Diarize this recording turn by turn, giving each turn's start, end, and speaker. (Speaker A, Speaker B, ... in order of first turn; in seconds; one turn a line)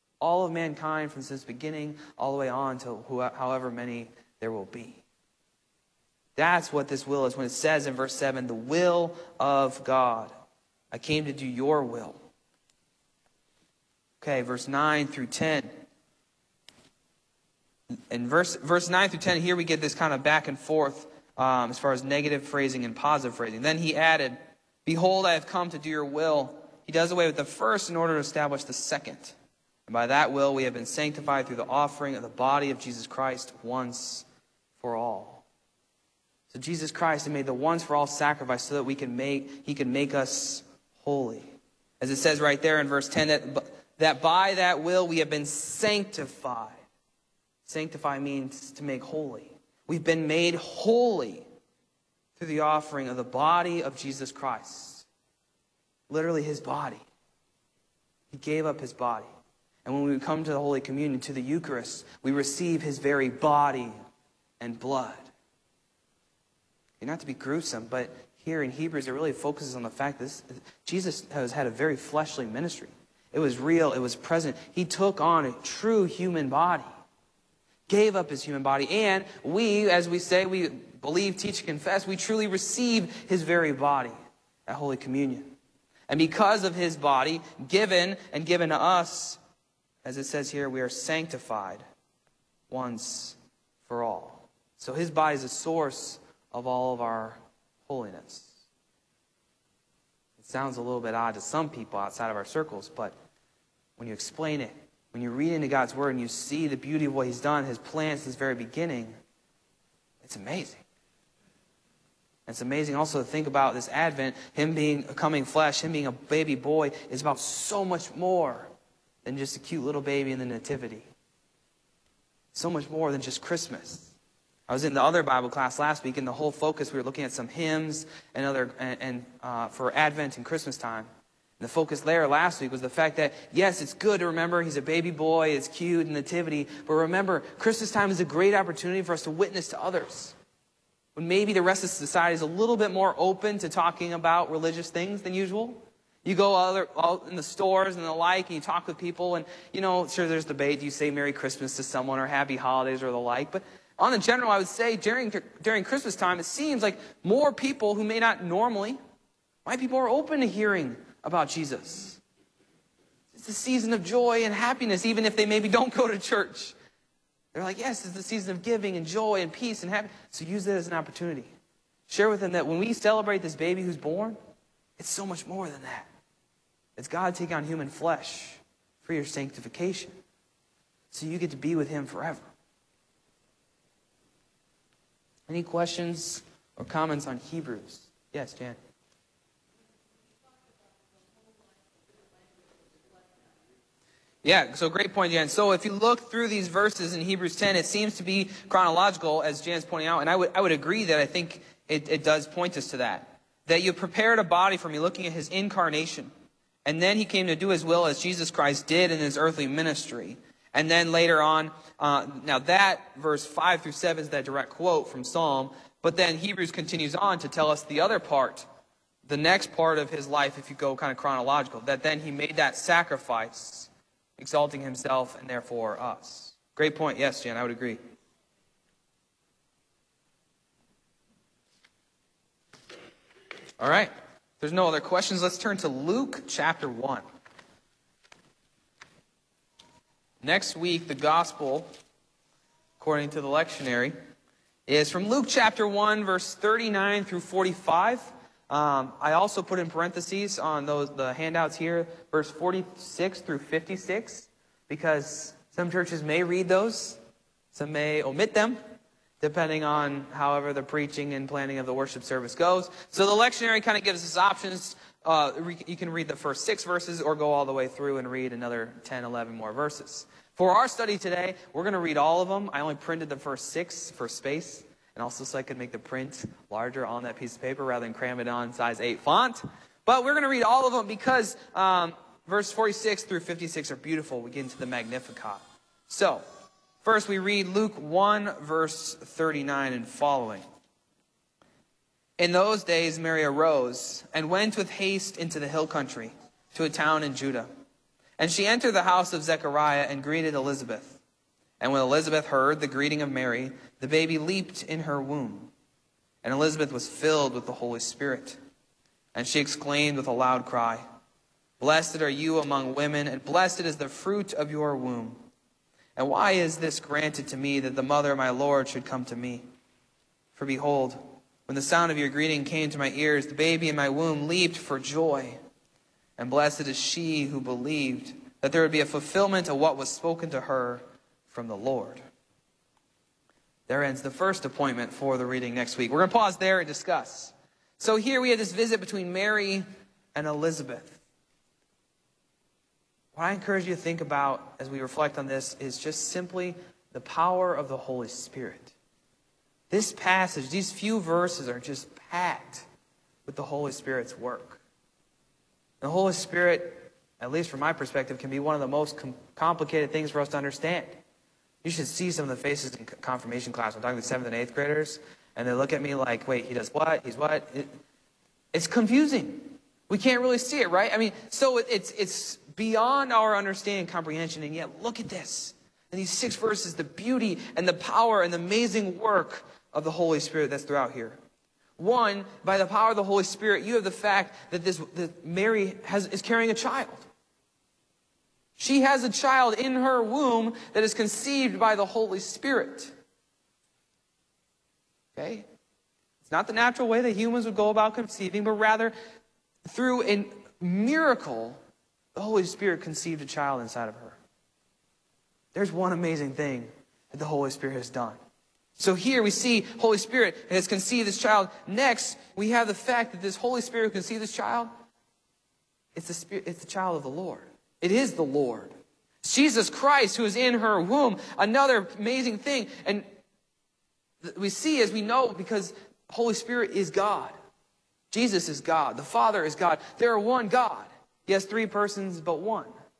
Speaker A: 0.2-5.0
Speaker A: 6.3-10.3
Speaker A: 10.9-12.2
Speaker A: 14.2-15.7
Speaker A: 18.1-29.3
Speaker A: 29.9-34.2
Speaker A: 34.8-35.4
Speaker A: 36.5-46.8
Speaker A: 47.6-51.5
Speaker A: 52.4-55.1
Speaker A: 56.1-57.0
Speaker A: 58.3-59.3
Speaker A: 59.8-63.9
Speaker A: 64.6-65.3
Speaker A: 67.0-76.9
Speaker A: 77.9-84.1
Speaker A: 84.7-85.5
Speaker A: 86.1-89.4
Speaker A: 90.0-91.8
Speaker A: 92.7-98.5
Speaker A: 100.4-103.1
Speaker A: 104.0-109.1
Speaker A: 110.2-110.8
Speaker A: 112.5-118.7
Speaker A: 119.2-121.0
Speaker A: 122.5-124.1
Speaker A: 124.7-131.1
Speaker A: 131.6-140.3
Speaker A: 141.2-159.0
Speaker A: 159.6-162.2
Speaker A: 163.3-166.7
Speaker A: 167.5-171.5
Speaker A: 172.1-174.4
Speaker A: 175.0-176.1
Speaker A: 176.9-180.2
Speaker A: 181.1-182.5
Speaker A: 185.5-188.8
Speaker A: 194.4-206.3
Speaker A: 206.8-218.7
Speaker A: 219.2-228.0
Speaker A: 233.8-237.2
Speaker A: 240.4-241.9
Speaker A: 243.0-244.1
Speaker A: 244.9-257.2
Speaker A: 257.7-258.8
Speaker A: 259.4-286.4
Speaker A: 287.0-290.6
Speaker A: 292.4-297.7
Speaker A: 298.4-301.2
Speaker A: 301.8-305.7
Speaker A: 306.4-308.6
Speaker A: 309.3-311.0
Speaker A: 311.8-315.4
Speaker A: 316.1-319.6
Speaker A: 320.5-325.6
Speaker A: 326.4-332.2
Speaker A: 333.9-341.2
Speaker A: 343.3-348.9
Speaker A: 349.9-352.9
Speaker A: 353.4-354.8
Speaker A: 356.0-361.1
Speaker A: 361.8-367.9
Speaker A: 368.7-381.4
Speaker A: 382.0-387.2
Speaker A: 388.8-393.1
Speaker A: 395.3-395.6
Speaker A: 396.4-399.1
Speaker A: 399.8-401.8
Speaker A: 402.3-404.4
Speaker A: 405.7-408.4
Speaker A: 409.0-414.9
Speaker A: 416.1-423.2
Speaker A: 424.4-427.5
Speaker A: 428.3-432.9